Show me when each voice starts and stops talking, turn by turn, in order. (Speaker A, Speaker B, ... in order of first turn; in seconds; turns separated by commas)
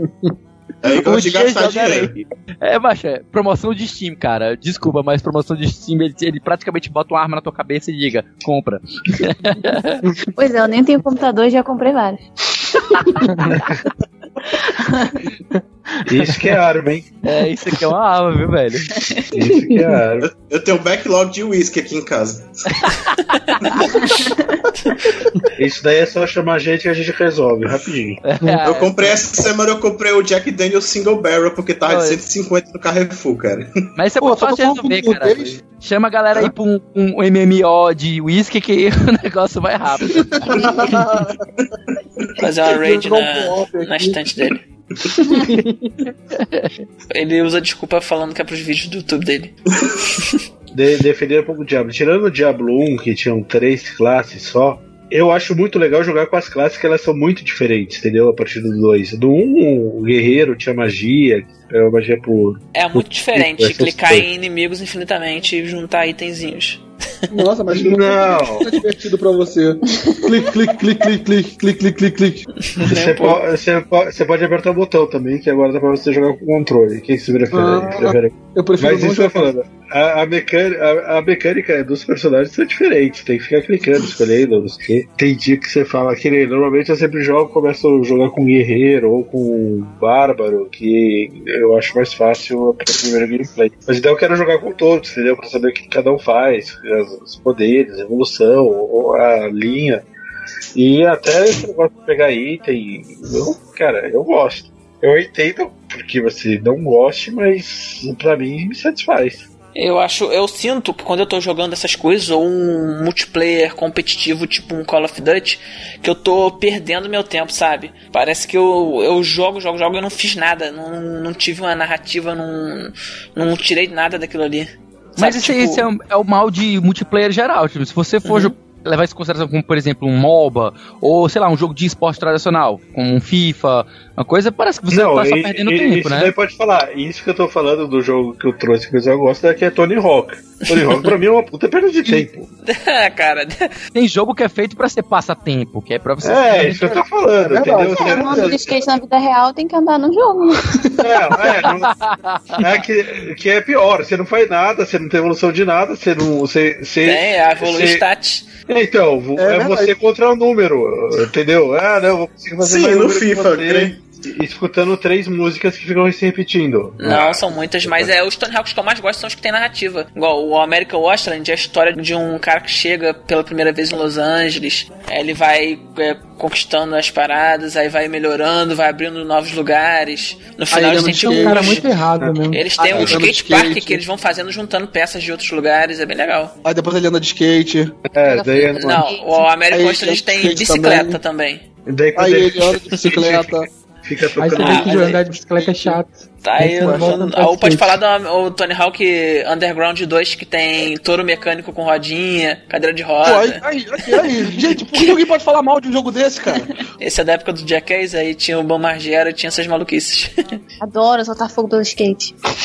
Speaker A: 0.8-2.1, Speaker B: 0.9-10.0, Speaker C: 10.4-12.2, Speaker D: 13.2-13.5, Speaker E: 16.1-17.1, Speaker B: 17.2-18.9, Speaker E: 19.3-20.3, Speaker A: 20.2-22.8, Speaker B: 22.8-23.1, Speaker A: 23.7-24.2, Speaker E: 25.6-28.2, Speaker B: 28.2-29.2, Speaker A: 28.6-33.7, Speaker B: 31.8-32.2, Speaker B: 34.0-40.8, Speaker F: 34.2-35.7, Speaker F: 40.3-41.4, Speaker G: 42.4-44.6, Speaker F: 42.8-44.2, Speaker F: 45.2-45.9, Speaker B: 46.3-46.7, Speaker G: 47.1-49.6, Speaker E: 50.7-64.3, Speaker G: 62.7-66.8, Speaker F: 67.3-72.4, Speaker E: 67.7-68.8, Speaker G: 72.8-73.4, Speaker E: 72.9-100.0, Speaker F: 77.5-79.5, Speaker E: 100.8-109.5, Speaker G: 109.8-125.9, Speaker B: 125.2-136.3, Speaker G: 128.2-128.6, Speaker E: 134.9-142.5, Speaker G: 140.7-141.1, Speaker G: 142.1-143.7, Speaker B: 143.9-146.9, Speaker E: 146.2-148.8, Speaker F: 146.6-148.6, Speaker C: 147.8-151.6, Speaker E: 151.0-151.9, Speaker B: 151.8-152.6, Speaker E: 152.6-158.0, Speaker G: 157.0-158.5, Speaker E: 158.7-168.1, Speaker F: 159.4-159.9, Speaker A: 162.6-164.0, Speaker G: 167.0-181.9, Speaker A: 167.1-167.4, Speaker F: 180.7-181.8, Speaker D: 181.2-182.7, Speaker E: 182.2-183.2, Speaker G: 182.5-186.5, Speaker F: 182.8-184.0, Speaker F: 186.6-187.9, Speaker E: 188.1-189.1, Speaker C: 188.2-189.4, Speaker G: 188.8-191.6, Speaker F: 189.7-191.2, Speaker E: 191.9-195.1, Speaker F: 192.2-193.7, Speaker D: 194.4-198.0, Speaker G: 194.6-195.2, Speaker G: 196.4-203.6, Speaker F: 196.9-197.2, Speaker F: 203.2-206.7, Speaker G: 207.0-210.3, Speaker C: 210.8-212.3